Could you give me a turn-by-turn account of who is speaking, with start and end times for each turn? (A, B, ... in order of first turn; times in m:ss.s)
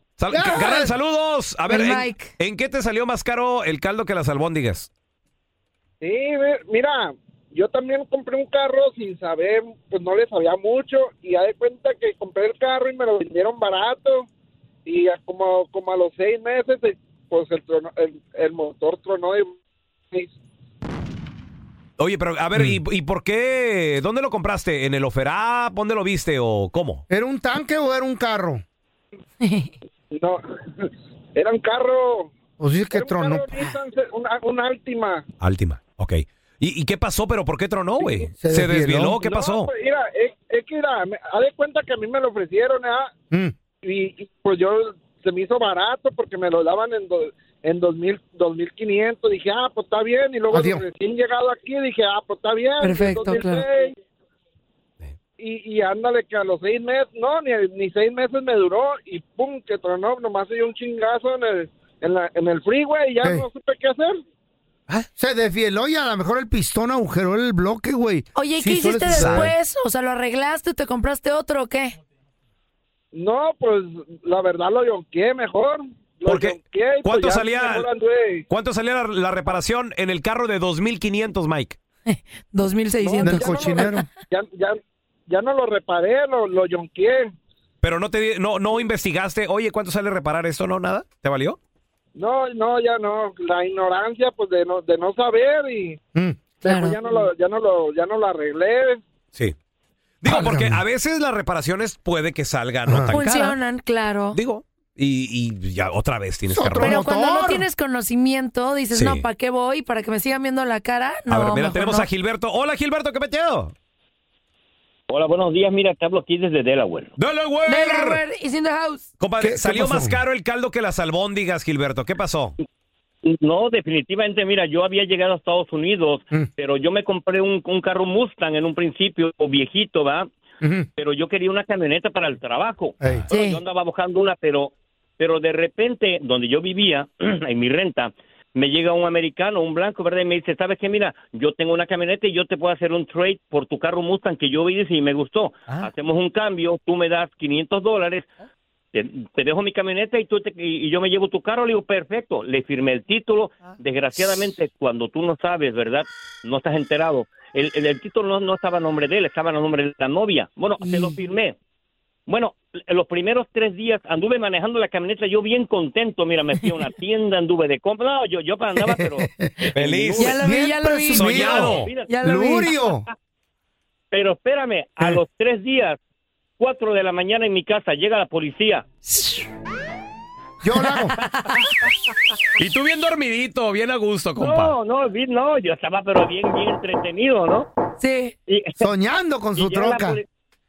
0:00.2-0:04.9 A
0:00.3-0:00.9 B
0:01.7-0:02.3 C
0:06.0-0:14.3 D
0:14.9-0:19.6 D
0:22.0-0:27.0 A
0:27.1-0:28.6 B
0:29.4-0:29.7 C
0:30.1-0:32.3 D
0:32.6-0:33.7 B
0:32.9-0:35.2 D
0:35.4-0:39.7 A
0:38.0-0:38.3 D
0:38.4-0:39.2 B
0:39.2-0:43.2 D
0:43.8-0:54.0 D
0:50.5-0:50.8 B
0:52.8-0:53.7 C
0:55.4-1:04.2 D
1:05.2-1:09.5 B
1:08.4-1:12.0 C
1:09.1-1:09.5 A
1:13.1-1:18.5 D
1:16.3-1:17.9 A
1:18.5-1:21.8 A
1:22.1-1:24.0 C
1:23.0-1:27.3 D
1:23.2-1:24.1 B
1:27.8-1:31.6 A
1:32.2-1:36.0 D
1:36.1-1:36.4 B
1:36.6-1:39.0 D
1:36.6-1:37.0 C
1:40.2-1:43.6 A
1:40.2-1:40.8 B
1:42.9-1:43.2 B
1:43.1-1:44.4 C
1:44.3-1:47.0 A
1:46.5-1:47.7 B
1:46.8-1:52.1 C
1:48.9-1:49.2 A
1:51.3-1:53.7 A
1:55.1-1:57.1 E
1:57.2-1:58.2 A
1:57.7-1:59.1 C
1:59.2-2:02.6 A
1:59.4-2:00.2 B
2:03.2-2:10.3 E
2:10.6-2:10.9 B
2:11.0-2:28.3 E
2:13.3-2:13.6 C
2:28.9-2:41.6 E
2:40.8-2:41.2 C
2:42.3-2:50.4 E
2:48.8-2:49.5 B
2:49.7-2:50.4 A
2:50.2-2:52.7 C
2:50.3-2:53.1 B
2:51.2-2:51.9 A
2:51.5-2:52.1 E
2:54.1-2:56.0 E
2:56.6-2:58.9 E
2:59.1-2:59.4 C
3:00.6-3:01.2 B
3:02.6-3:04.8 A
3:04.4-3:07.7 E
3:08.0-3:08.3 C
3:08.5-3:08.9 E
3:08.8-3:10.2 B
3:09.6-3:10.3 E